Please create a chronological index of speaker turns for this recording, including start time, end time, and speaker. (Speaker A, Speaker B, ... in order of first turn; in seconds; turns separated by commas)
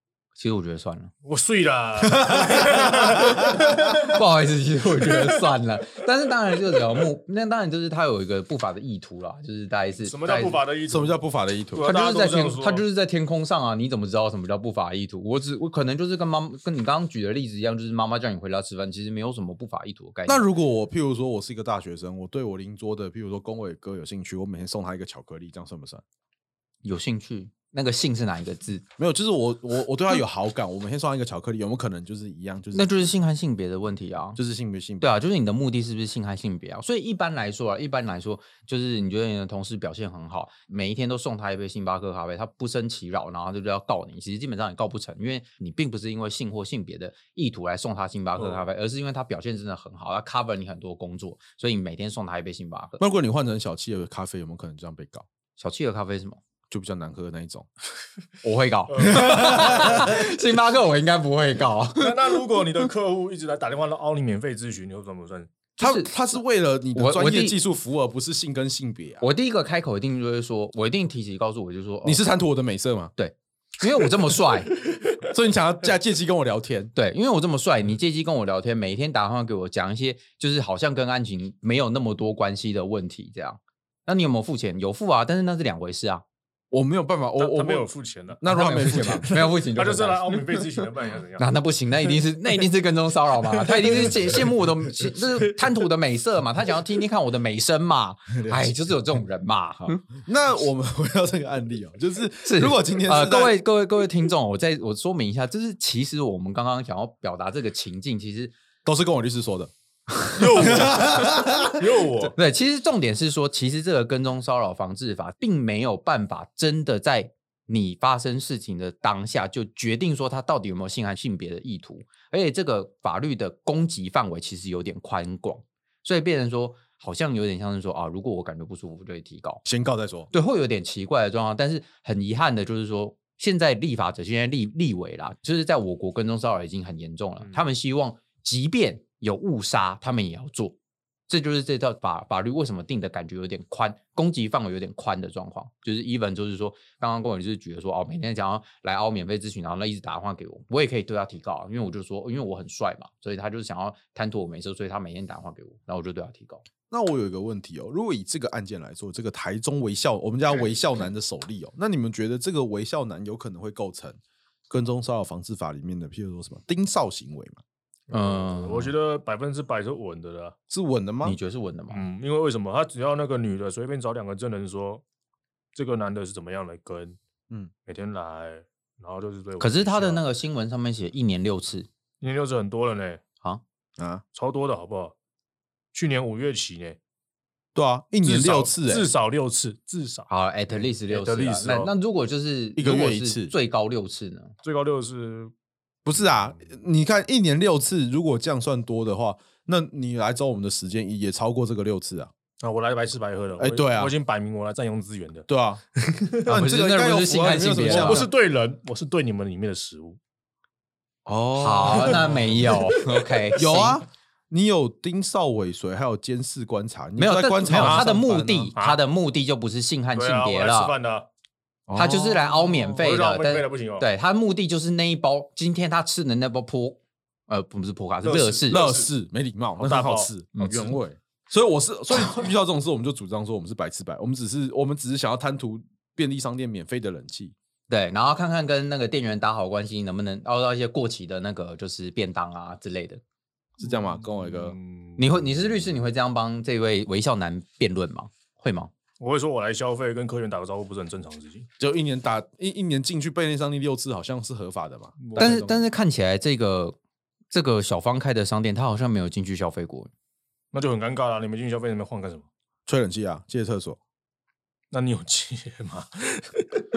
Speaker A: 0.4-1.1, Speaker B: 1.2-4.2, Speaker C: 2.0-3.5, Speaker A: 3.3-10.6, Speaker B: 5.0-5.4, Speaker B: 10.0-11.2, Speaker C: 10.9-11.9, Speaker B: 11.7-12.8, Speaker A: 11.8-20.5, Speaker C: 20.3-26.0, Speaker A: 26.8-28.9, Speaker C: 29.0-33.1, Speaker A: 32.7-34.4, Speaker C: 34.4-35.2, Speaker A: 35.0-53.0, Speaker C: 53.0-55.2, Speaker A: 55.6-56.4, Speaker C: 56.7-57.7, Speaker A: 58.4-62.4, Speaker B: 58.9-59.9, Speaker C: 59.0-60.2, Speaker B: 62.0-65.5, Speaker A: 65.8-66.1, Speaker C: 65.8-69.3, Speaker A: 66.9-67.6, Speaker A: 69.2-72.2, Speaker C: 72.0-73.1, Speaker A: 73.2-74.7, Speaker C: 74.9-76.9, Speaker A: 77.0-86.2, Speaker C: 86.7-87.9, Speaker B: 87.4-91.5, Speaker C: 88.4-89.3, Speaker A: 88.4-90.8, Speaker A: 91.4-100.0, Speaker B: 93.6-94.4, Speaker C: 98.4-98.7, Speaker C: 99.9-103.6, Speaker A: 102.4-108.5, Speaker C: 108.8-109.7, Speaker A: 110.1-110.9, Speaker B: 110.3-112.3, Speaker C: 110.6-111.8, Speaker A: 112.2-129.6, Speaker C: 129.6-130.3, Speaker A: 130.3-140.8, Speaker A: 141.3-156.6, Speaker C: 156.9-164.2, Speaker C: 164.7-167.6, Speaker B: 168.1-170.6, Speaker A: 168.1-168.9, Speaker C: 170.7-171.4, Speaker A: 171.2-172.0, Speaker B: 171.9-175.0, Speaker B: 175.7-177.2, Speaker B: 177.8-180.2, Speaker A: 179.6-181.9, Speaker B: 182.2-183.2, Speaker C: 184.0-184.2, Speaker B: 184.3-185.1, Speaker B: 185.9-187.0, Speaker C: 187.7-189.1, Speaker B: 188.2-191.9, Speaker A: 190.3-194.5, Speaker C: 192.8-193.5, Speaker B: 194.6-195.5, Speaker C: 196.0-202.3, Speaker B: 196.2-196.7, Speaker B: 202.6-205.5, Speaker C: 203.6-204.1, Speaker C: 205.5-205.8, Speaker B: 206.0-206.4, Speaker C: 206.4-208.3, Speaker A: 206.5-208.3, Speaker B: 207.8-210.2, Speaker C: 211.2-212.5, Speaker A: 211.6-214.0, Speaker B: 212.0-213.3, Speaker C: 213.6-218.7, Speaker A: 217.2-220.9, Speaker B: 217.7-218.1, Speaker B: 220.1-221.3, Speaker C: 221.9-222.4, Speaker A: 221.9-228.8, Speaker B: 222.4-224.1, Speaker B: 228.2-229.1, Speaker C: 228.7-237.5, Speaker B: 229.8-231.0, Speaker A: 237.9-243.2, Speaker C: 243.8-244.8, Speaker B: 243.8-245.5, Speaker A: 245.2-248.9, Speaker B: 249.2-251.7, Speaker C: 251.8-255.8, Speaker B: 255.2-255.8, Speaker A: 255.3-257.0, Speaker A: 257.5-260.1, Speaker B: 260.7-262.5, Speaker C: 262.9-264.0, Speaker B: 264.9-266.9